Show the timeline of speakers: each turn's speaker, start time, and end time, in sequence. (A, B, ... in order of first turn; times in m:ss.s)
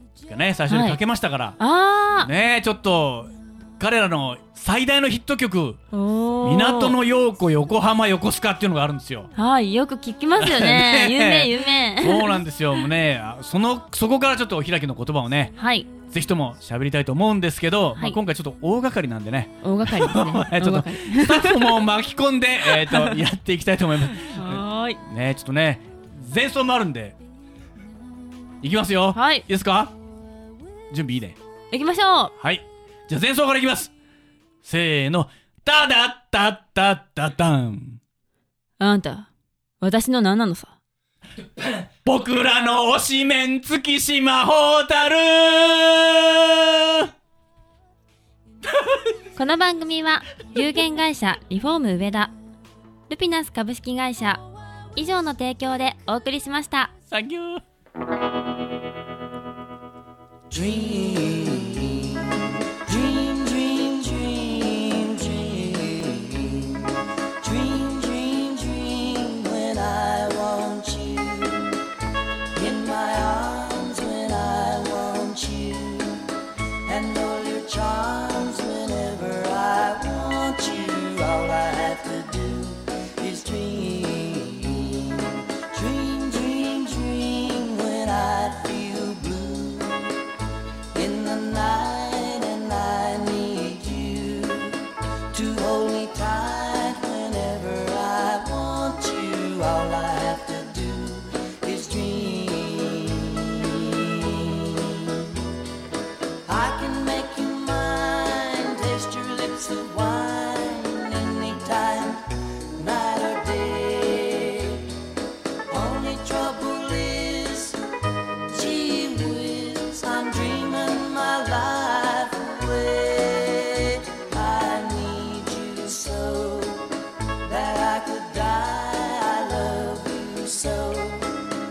0:00.2-0:01.6 A
0:00.7-0:01.0 B
0:01.6-0:02.3 B
0:02.2-0:05.8 A
0:05.9-0:07.0 B
0:06.4-0:09.3 A
0:09.4-0:12.4 B
0:10.4-0:27.2 A
0:15.6-0:15.9 B
0:19.6-0:21.8 B
0:22.6-0:23.2 B
0:24.3-0:25.0 B
0:28.6-0:29.9 A
0:29.1-0:29.4 B
0:30.9-0:31.4 A
0:31.7-0:32.3 B
0:32.4-0:33.9 A
0:34.6-0:38.0 A
0:38.8-0:39.3 B
0:39.8-0:40.8 B
0:41.6-0:47.1 A
0:49.4-0:52.3 B
0:53.1-0:54.4 B
0:55.0-0:56.9 B
0:57.1-0:57.6 A
1:00.5-1:11.8 C
1:12.6-1:16.2 C
1:16.9-1:30.2 C
1:30.9-1:45.3 C
1:46.5-1:52.2 C
1:52.8-1:54.9 C
1:55.7-1:57.8 C
1:58.5-2:06.9 C
2:07.4-2:11.5 C